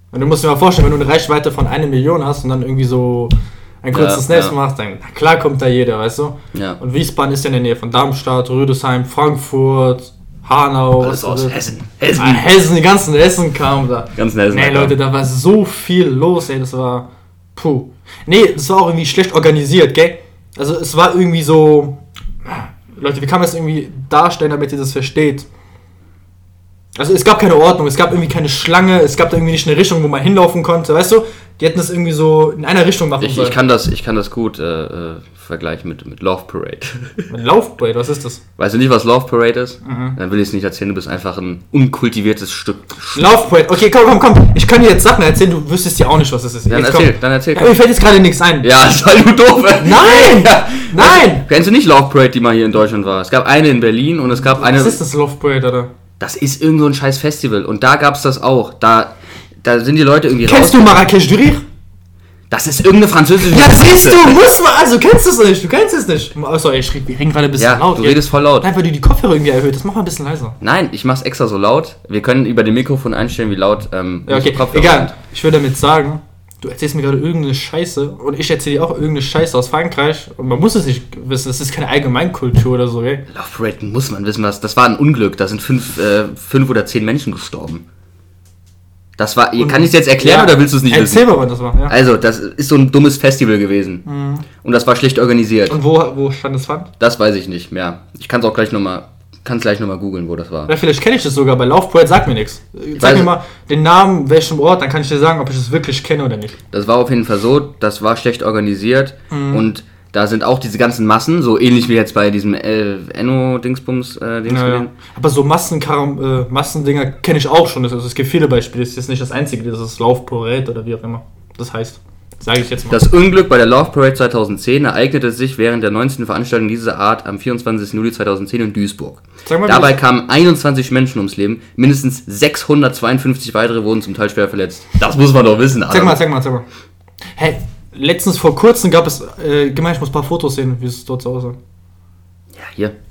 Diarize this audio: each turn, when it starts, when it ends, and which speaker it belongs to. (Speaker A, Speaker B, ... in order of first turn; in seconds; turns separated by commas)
Speaker A: 0.1-11.6, Speaker B: 3.9-4.5, Speaker B: 6.5-6.8, Speaker B: 11.0-12.5, Speaker A: 12.2-25.5, Speaker B: 14.2-15.0, Speaker A: 26.9-33.6, Speaker B: 33.2-37.2, Speaker A: 37.3-38.4, Speaker B: 38.6-43.3, Speaker A: 39.8-40.2, Speaker A: 43.1-48.7, Speaker B: 46.7-47.7, Speaker B: 48.6-55.0, Speaker A: 49.8-51.5, Speaker A: 54.6-55.9, Speaker B: 56.2-61.0, Speaker A: 60.4-61.6, Speaker B: 62.5-64.4, Speaker A: 63.4-70.6, Speaker B: 67.6-68.7, Speaker B: 70.6-75.1, Speaker A: 74.3-83.2, Speaker B: 83.3-87.8, Speaker B: 89.2-91.4, Speaker A: 89.6-92.0, Speaker B: 91.9-94.0, Speaker A: 94.0-94.5, Speaker B: 94.6-95.8, Speaker A: 95.7-96.9, Speaker B: 97.0-100.7, Speaker A: 100.7-106.6, Speaker B: 103.0-103.3, Speaker B: 106.7-114.9, Speaker A: 109.3-109.7, Speaker A: 114.5-123.0, Speaker B: 122.9-136.2, Speaker A: 129.4-130.0, Speaker A: 135.9-136.6, Speaker A: 137.4-141.6, Speaker B: 142.5-142.9